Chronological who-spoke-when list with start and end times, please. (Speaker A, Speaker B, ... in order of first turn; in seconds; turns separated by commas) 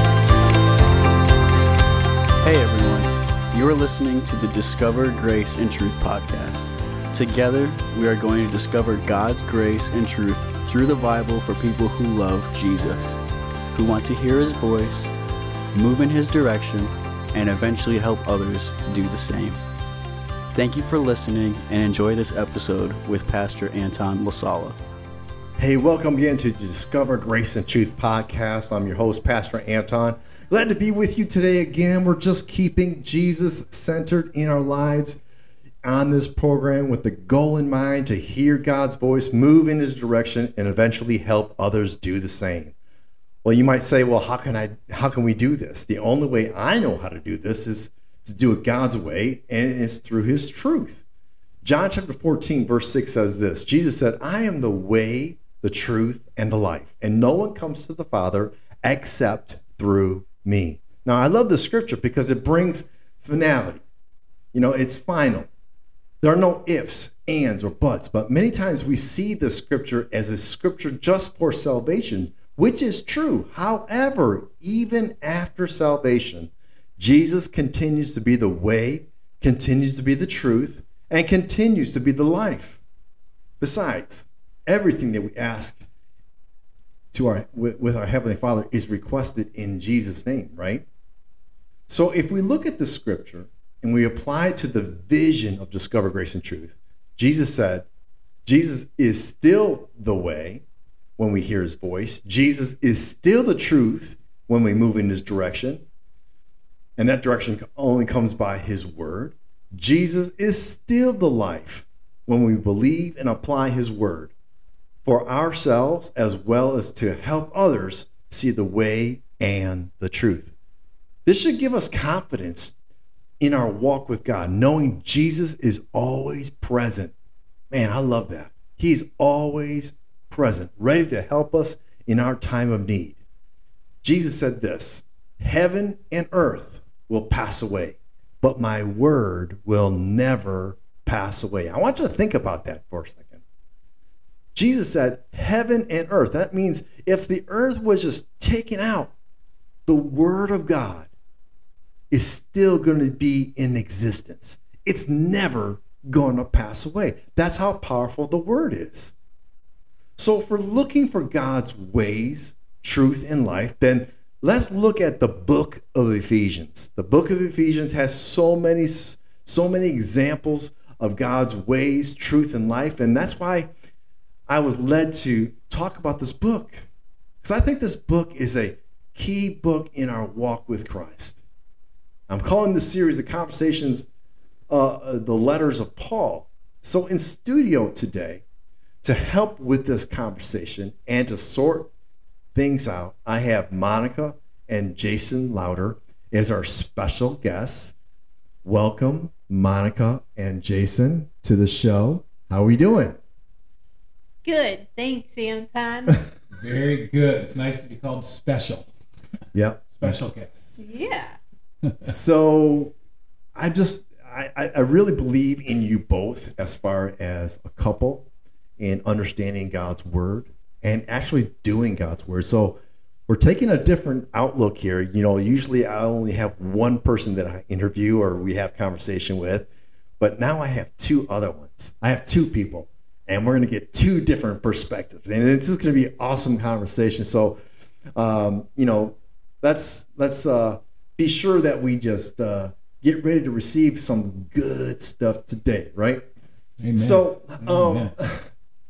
Speaker A: 2.4-13.2, Speaker A: 13.7-15.1, Speaker A: 15.7-19.6, Speaker A: 20.5-24.8, Speaker B: 25.6-35.2, Speaker B: 35.8-42.8, Speaker B: 43.4-51.0, Speaker B: 51.6-63.8, Speaker B: 64.5-65.5, Speaker B: 66.2-82.8, Speaker B: 83.6-85.8, Speaker B: 87.1-90.9, Speaker B: 91.9-97.9, Speaker B: 98.5-100.6, Speaker B: 101.2-105.8, Speaker B: 107.0-114.3, Speaker B: 115.0-120.5, Speaker B: 121.3-122.8, Speaker B: 123.4-127.1, Speaker B: 127.7-133.2, Speaker B: 134.0-143.4, Speaker B: 144.5-149.1, Speaker B: 149.9-151.1, Speaker B: 152.1-159.1, Speaker B: 160.2-173.7, Speaker B: 174.5-176.9, Speaker B: 177.4-181.4, Speaker B: 182.3-184.1, Speaker B: 184.7-188.4, Speaker B: 189.0-191.9, Speaker B: 192.5-197.9, Speaker B: 198.6-203.2, Speaker C: 204.4-206.2, Speaker D: 206.5-208.9, Speaker B: 209.5-210.2, Speaker D: 209.9-210.8, Speaker C: 210.8-211.4, Speaker D: 211.8-212.1, Speaker B: 212.0-212.9, Speaker B: 213.5-218.3, Speaker B: 218.8-229.7, Speaker B: 230.2-237.6, Speaker B: 238.1-246.3, Speaker D: 246.8-248.1, Speaker B: 246.9-248.5